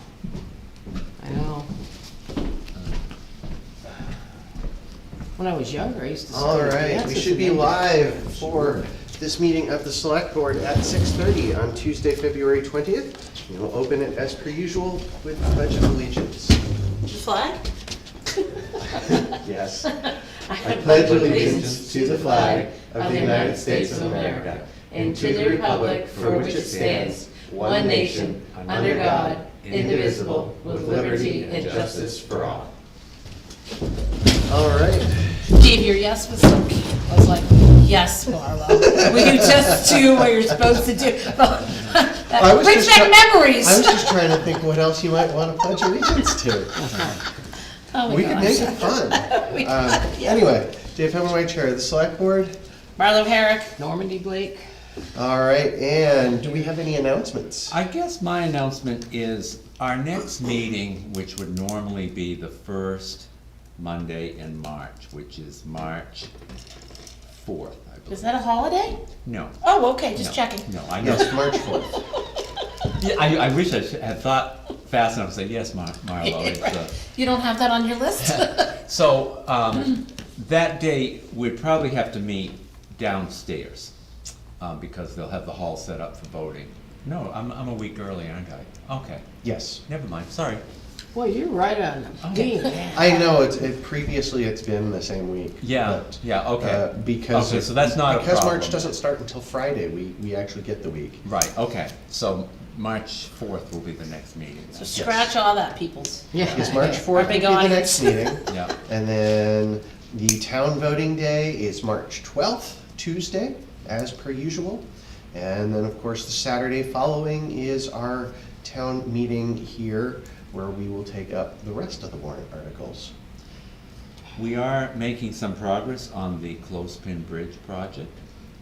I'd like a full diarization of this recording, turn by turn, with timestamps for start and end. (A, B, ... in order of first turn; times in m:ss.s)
0:01.2-0:01.7 A
0:02.8-0:03.0 B
0:05.4-0:08.8 A
0:06.3-0:16.6 C
0:17.1-0:17.6 D
0:18.8-0:19.4 D
0:19.3-0:19.9 C
0:19.9-0:32.3 D
0:20.6-0:32.6 C
0:20.8-0:27.2 B
0:28.5-0:32.7 B
0:34.5-0:35.3 C
0:35.5-0:44.2 D
0:42.4-0:46.8 C
0:46.8-0:47.2 A
0:47.9-0:50.4 D
0:48.1-0:52.6 C
0:53.0-0:53.7 D
0:53.8-0:54.6 A
0:55.2-0:57.8 C
0:57.7-1:06.3 B
1:07.3-1:08.4 B
1:08.1-1:09.0 D
1:09.2-1:09.6 B
1:09.6-1:11.7 D
1:10.1-1:11.6 B
1:11.0-1:12.0 C
1:13.0-1:17.0 B
1:16.2-1:18.8 D
1:18.2-1:23.9 B
1:24.6-1:29.3 B
1:29.4-1:29.8 C
1:29.9-1:30.6 B
1:31.1-1:32.9 A
1:32.2-1:33.2 B
1:32.9-1:41.2 C
1:35.6-1:39.0 B
1:41.2-1:45.3 B
1:44.7-1:48.4 D
1:46.3-1:47.3 A
1:46.5-2:03.1 C
1:48.5-1:48.8 B
2:04.4-2:08.1 B